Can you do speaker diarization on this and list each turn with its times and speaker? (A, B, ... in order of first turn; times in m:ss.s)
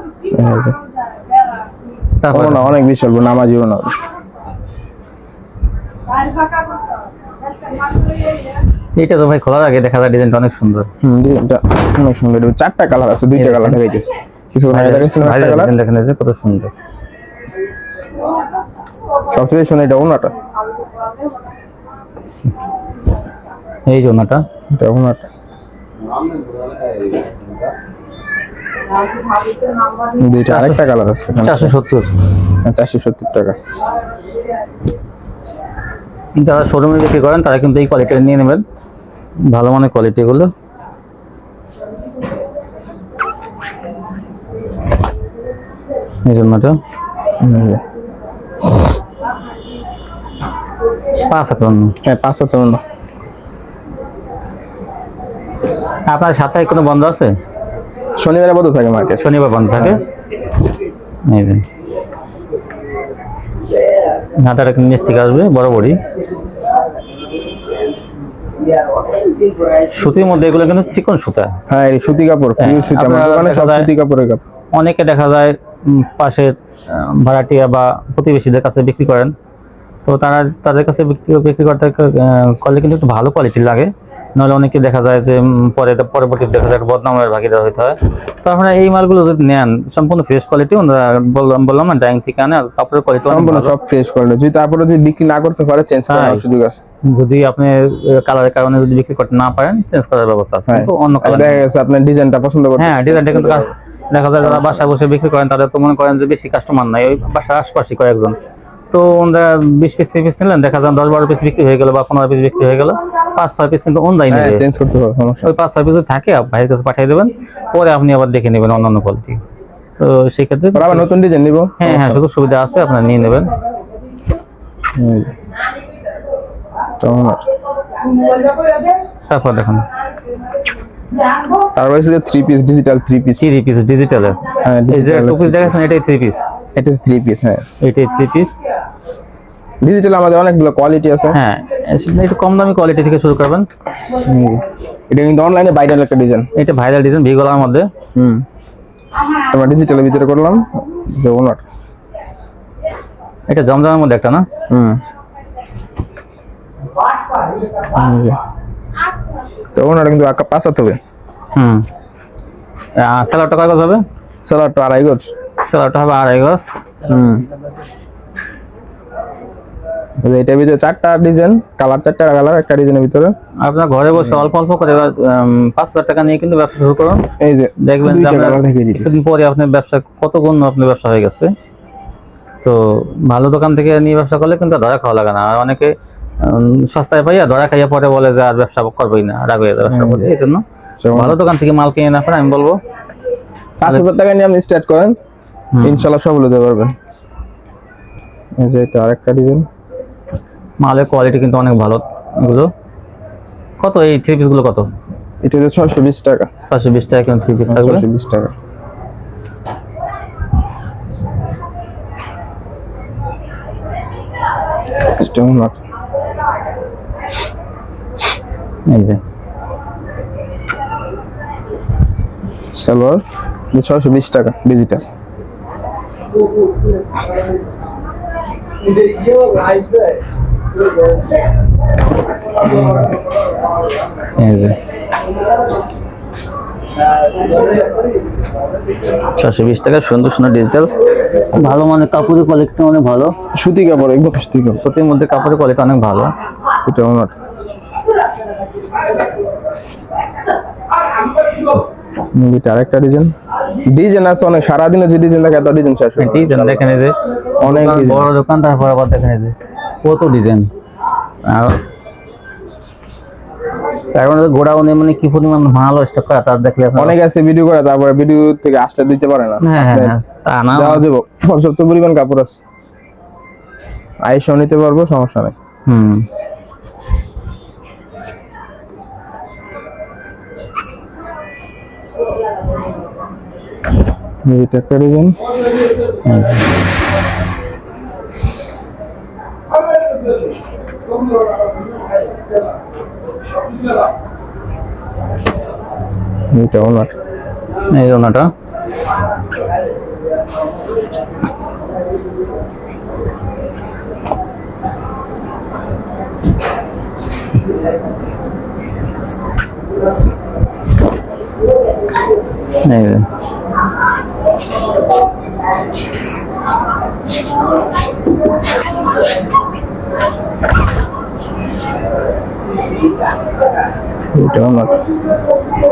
0:00.3-0:00.8 A
0:02.2-0:02.8 B
0:02.3-0:04.0 A
0:09.0-0:10.9 B
0:11.0-0:15.7 A
0:13.4-0:13.8 B
0:14.7-0:16.7 B
0:19.3-0:20.3 A
0:23.9-0:24.4 B
0:24.8-0:25.3 A
0:30.2-0:31.8 A
0:30.5-0:30.8 B
0:31.4-0:32.1 B
0:32.6-0:33.6 A
0:36.4-0:38.6 B
0:39.4-0:40.5 B
0:46.2-0:46.8 B
0:47.4-0:47.8 A
0:51.3-0:52.0 B
0:52.0-0:52.8 A
0:56.1-0:57.4 B
0:58.2-1:00.0 A
0:59.2-1:00.0 B
1:01.3-1:01.6 B
1:04.4-1:06.0 B
1:09.9-1:11.6 B
1:11.7-1:14.4 A
1:12.6-1:13.9 B
1:14.7-1:19.3 B
1:20.1-1:33.8 B
1:33.3-1:36.8 A
1:36.1-1:36.4 B
1:37.0-1:41.6 B
1:40.7-1:43.7 A
1:42.8-1:48.4 B
1:44.4-1:44.9 A
1:48.9-1:54.6 B
1:54.3-1:55.5 A
1:55.4-1:59.4 B
2:00.0-2:01.1 B
2:00.7-2:02.2 A
2:01.8-2:03.5 B
2:04.9-2:05.3 A
2:07.0-2:07.4 A
2:09.3-2:09.8 B
2:11.7-2:13.5 A
2:13.4-2:16.4 B
2:14.6-2:15.8 A
2:16.8-2:17.6 A
2:17.8-2:18.5 B
2:19.8-2:21.4 A
2:21.3-2:23.7 B
2:24.2-2:26.5 A
2:26.6-2:27.9 B
2:28.2-2:28.4 A
2:29.5-2:31.6 A
2:33.5-2:34.5 B
2:34.7-2:35.0 A
2:37.9-2:38.4 A
2:39.8-2:41.0 A
2:41.6-2:41.8 B
2:43.0-2:44.0 B
2:44.4-2:45.3 A
2:45.6-2:46.7 B
2:47.0-2:47.5 A
2:50.2-2:53.3 A
2:53.6-3:01.5 B
2:57.4-2:59.2 A
3:02.6-3:12.8 B
3:09.9-3:10.3 A
3:11.0-3:11.4 A
3:13.8-3:15.2 A
3:15.7-3:16.0 B
3:15.8-3:17.0 A
3:18.6-3:19.7 A
3:20.8-3:22.7 B
3:23.8-3:24.9 B
3:25.4-3:26.5 A
3:26.7-3:28.0 B
3:27.7-3:28.5 A
3:35.2-3:35.8 A
3:38.9-3:39.2 B
3:42.7-3:45.1 A
3:52.6-3:53.1 B
3:54.4-3:54.8 B
3:59.4-4:00.9 B
4:01.5-4:03.4 B
4:03.5-4:04.8 A
4:04.8-4:06.3 B
4:06.8-4:07.3 A
4:12.3-4:13.3 A
4:13.9-4:16.9 A
4:16.2-4:20.7 B
4:17.6-4:18.4 A
4:21.4-4:21.8 B
4:24.1-4:27.2 B
4:27.0-4:30.2 A
4:29.6-4:31.0 B
4:30.7-4:32.6 A
4:34.2-4:35.6 A
4:35.9-4:36.2 B
4:44.5-4:45.4 A
4:46.2-4:46.6 B
4:56.5-4:57.1 A
4:57.9-4:58.5 B
5:12.8-5:13.3 B
5:24.3-5:25.0 A